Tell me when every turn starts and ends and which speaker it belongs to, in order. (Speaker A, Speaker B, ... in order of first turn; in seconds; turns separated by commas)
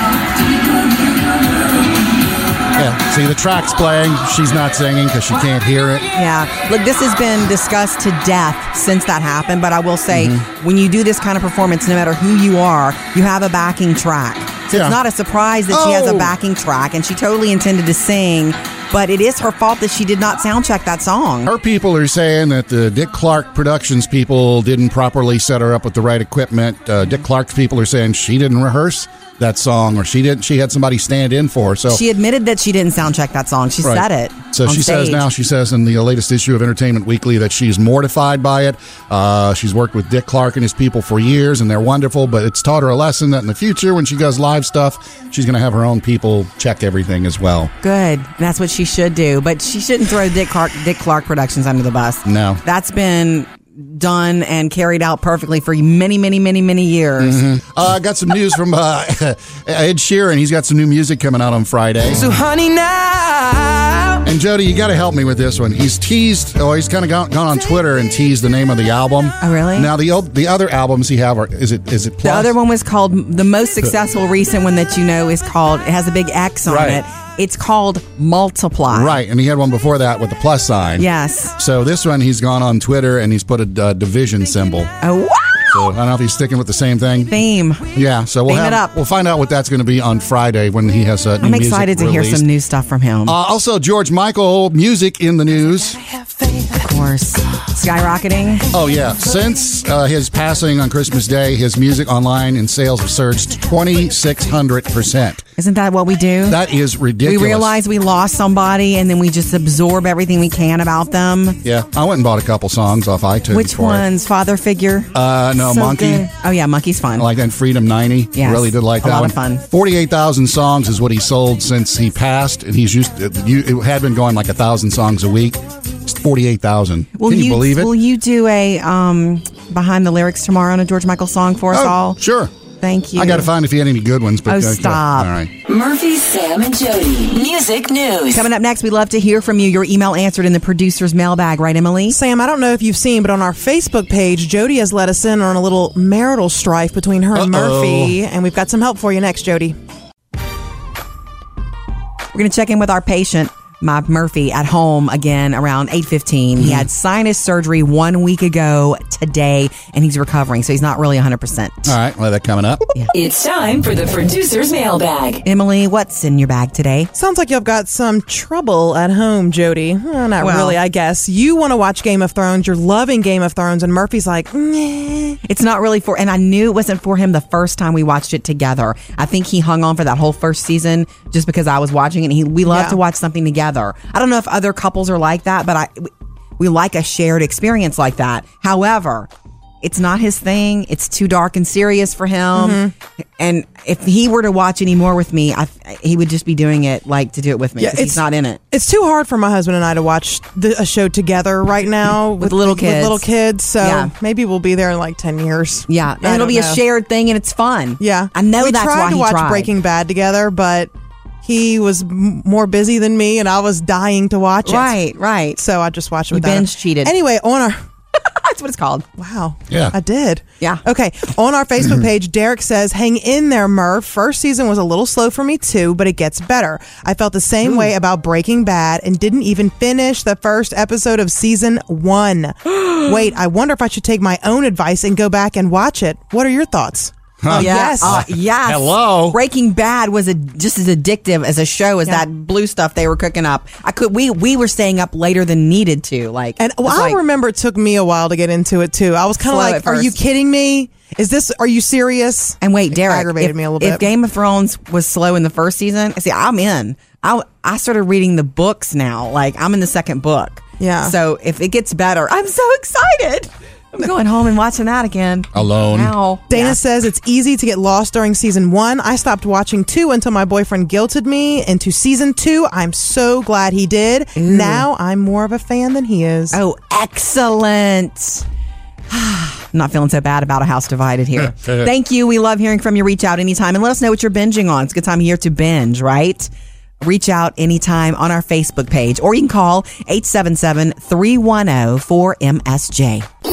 Speaker A: 2.8-6.1, Speaker B: 6.1-21.5, Speaker A: 10.1-10.4, Speaker A: 14.7-15.0, Speaker A: 15.7-16.3, Speaker A: 21.5-32.0, Speaker B: 31.9-35.3, Speaker A: 33.8-47.7, Speaker B: 47.8-57.4, Speaker A: 52.2-52.6, Speaker A: 57.2-62.2, Speaker C: 62.1-64.2, Speaker A: 64.2-72.5, Speaker B: 69.4-69.9, Speaker B: 72.2-79.1, Speaker A: 76.7-77.0, Speaker A: 78.9-84.9, Speaker B: 81.0-81.5, Speaker B: 85.0-85.9, Speaker A: 85.7-87.3, Speaker B: 87.3-87.9, Speaker A: 87.9-92.5, Speaker B: 88.5-88.9, Speaker B: 91.4-93.4, Speaker A: 93.3-96.0, Speaker B: 96.8-98.7, Speaker A: 98.7-105.4, Speaker B: 105.6-106.6, Speaker A: 106.5-107.8, Speaker B: 107.2-111.6, Speaker A: 111.6-114.0, Speaker B: 113.5-117.3, Speaker A: 115.1-116.3, Speaker A: 117.2-127.9, Speaker B: 118.4-119.6, Speaker B: 127.2-132.2, Speaker A: 131.7-132.5, Speaker B: 132.8-133.5, Speaker A: 133.2-135.5, Speaker B: 134.5-135.3, Speaker D: 135.7-138.4, Speaker B: 138.3-142.2, Speaker E: 142.1-149.8, Speaker A: 147.3-148.2, Speaker B: 152.3-161.9, Speaker A: 156.6-156.9, Speaker A: 161.9-162.9, Speaker D: 163.1-165.4, Speaker B: 165.4-167.1, Speaker E: 167.1-175.4, Speaker B: 170.4-170.8, Speaker B: 175.5-189.3, Speaker E: 182.7-183.0, Speaker B: 189.8-192.8, Speaker E: 192.6-192.9, Speaker B: 193.4-198.6, Speaker E: 197.8-206.8, Speaker B: 202.4-203.2, Speaker B: 203.8-204.1, Speaker B: 205.9-209.7, Speaker E: 208.0-210.9, Speaker E: 211.4-215.0, Speaker B: 214.6-215.6, Speaker E: 215.6-217.8, Speaker B: 216.3-217.1, Speaker B: 218.2-219.1, Speaker E: 219.2-238.2, Speaker A: 219.7-220.0, Speaker A: 237.4-239.4, Speaker B: 237.5-247.2, Speaker E: 246.6-254.1, Speaker B: 249.4-250.2, Speaker B: 252.6-266.8, Speaker E: 260.8-261.1, Speaker A: 265.5-266.1, Speaker E: 266.5-276.6, Speaker B: 274.4-274.9, Speaker B: 276.5-278.4, Speaker B: 279.1-286.5, Speaker A: 281.4-281.9, Speaker B: 287.0-293.3